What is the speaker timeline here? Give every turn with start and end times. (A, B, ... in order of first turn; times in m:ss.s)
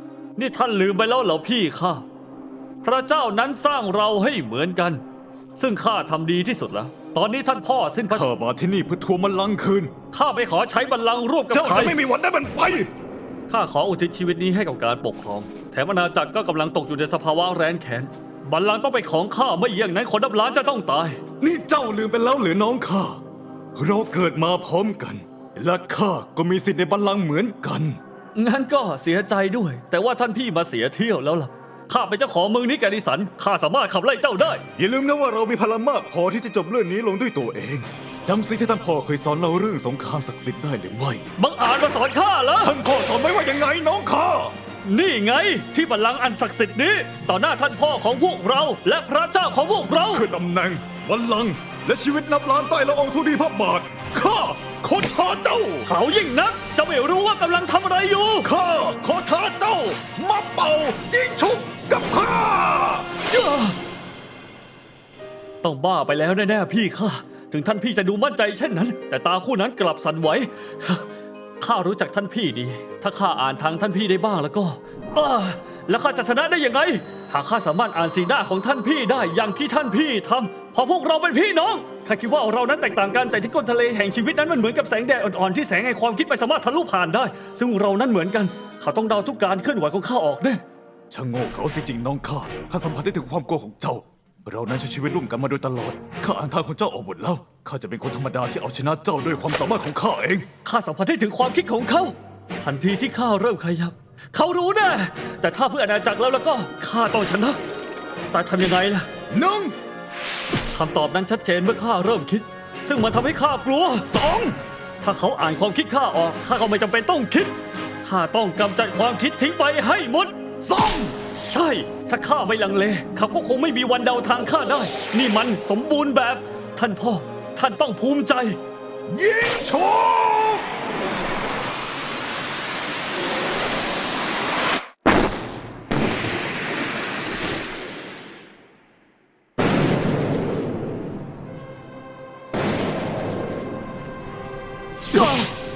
0:00.4-0:02.0 A
0:02.8-0:05.0 A
0:05.6-0:08.3 A
0:08.1-0:09.9 B
0:10.1-0:12.0 A
0:11.5-0:12.9 B
0:13.5-0:21.2 A
0:21.4-0:23.2 B
0:23.8-0:28.0 B
0:28.4-0:34.6 A
0:34.8-0:41.2 B
0:41.4-0:42.7 A
0:42.6-0:44.5 B
0:44.8-0:50.2 A
0:50.1-0:55.9 B
0:55.9-0:58.5 A
0:58.4-1:03.6 B
1:05.6-1:11.1 A
1:11.6-1:30.6 A
1:31.1-1:40.5 B
1:40.6-1:47.6 A
1:48.3-1:49.1 A
1:49.3-1:49.8 B
1:50.7-1:54.1 A
1:54.1-1:54.6 B
1:55.0-2:00.3 A
2:00.6-2:01.2 B
2:01.4-2:08.6 A
2:09.1-2:10.6 B
2:25.1-2:25.4 B